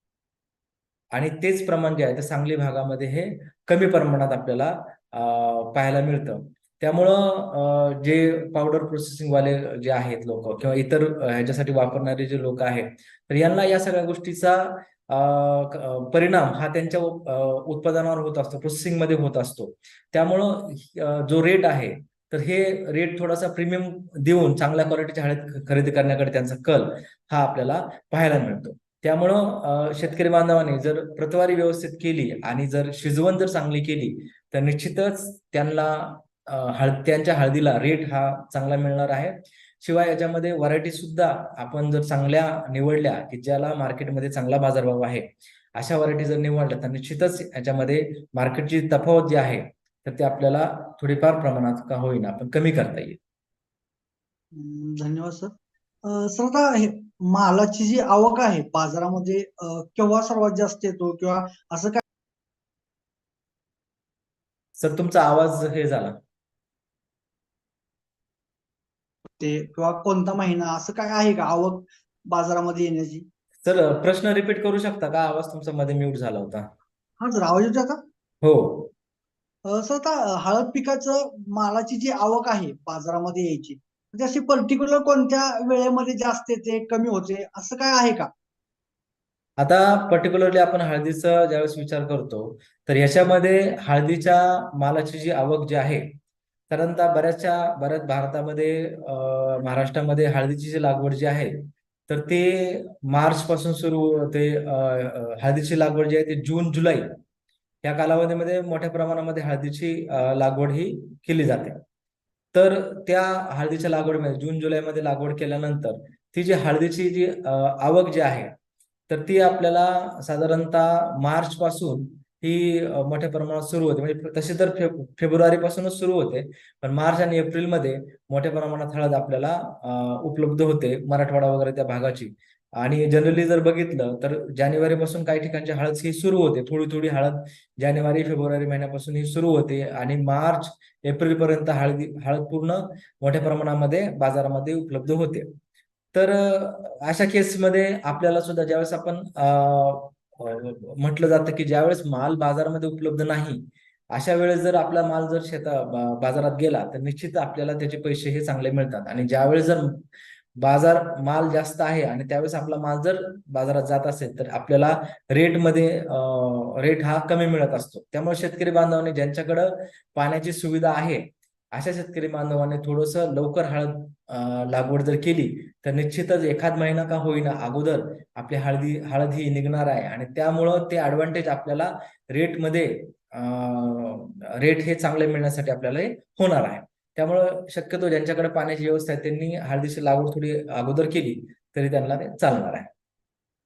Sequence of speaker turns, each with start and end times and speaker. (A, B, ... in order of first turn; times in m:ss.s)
0:01.1-0:53.2 A
0:54.5-1:02.0 B
1:04.8-1:06.2 A
1:09.4-1:13.3 B
1:13.6-1:16.7 A
1:17.2-1:18.0 B
1:18.4-1:18.9 A
1:19.6-1:28.3 B
1:29.6-1:36.2 A
1:36.7-1:47.2 A
1:47.8-1:51.8 A
1:52.5-1:58.6 A
1:59.1-2:25.5 A
2:26.1-2:40.1 A
2:40.6-3:12.9 A